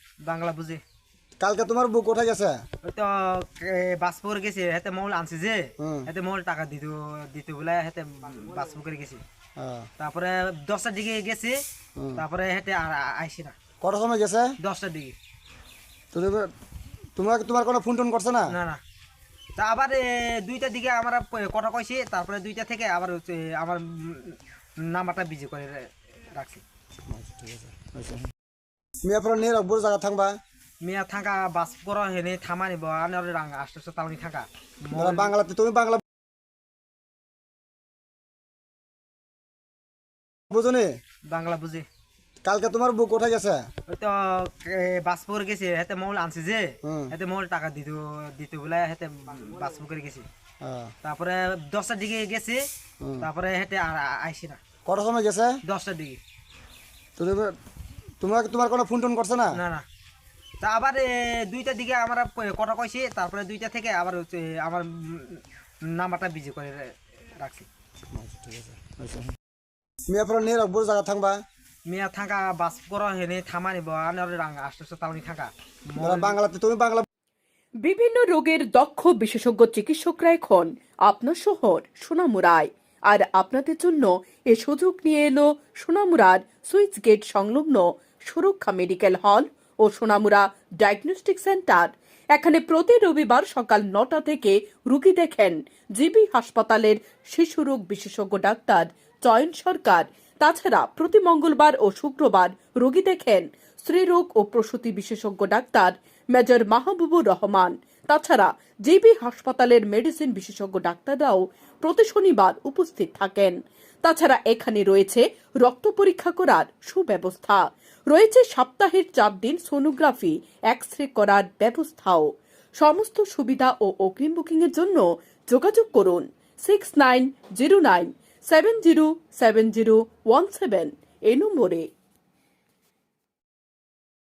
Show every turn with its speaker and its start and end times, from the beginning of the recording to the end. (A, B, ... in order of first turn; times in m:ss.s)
0:00.2-0:00.8 A
0:01.4-0:02.6 B
0:02.8-0:09.2 A
0:05.8-0:06.1 B
0:09.6-0:09.9 B
0:10.0-0:11.6 A
0:12.0-0:12.2 B
0:12.2-0:13.6 A
0:13.8-0:14.6 B
0:14.6-0:15.2 A
0:16.1-0:16.5 B
0:17.2-0:18.5 B
0:18.5-0:18.8 A
0:19.6-0:26.6 A
0:27.1-0:28.2 B
0:29.0-0:30.4 B
0:30.8-0:35.3 A
0:34.9-0:36.0 B
0:40.5-0:40.9 B
0:41.3-0:41.9 A
0:42.4-0:43.7 B
0:43.9-0:50.3 A
0:46.8-0:47.1 B
0:50.6-0:50.9 B
0:51.0-0:52.6 A
0:53.0-0:53.3 B
0:53.2-0:54.6 A
0:54.8-0:55.6 B
0:55.6-0:56.2 A
0:57.2-0:57.6 B
0:58.2-0:59.6 B
0:59.5-0:59.8 A
1:00.6-1:07.7 A
1:08.1-1:09.3 B
1:10.1-1:11.4 B
1:11.8-1:16.4 A
1:16.0-1:17.0 B
1:17.8-2:11.9 C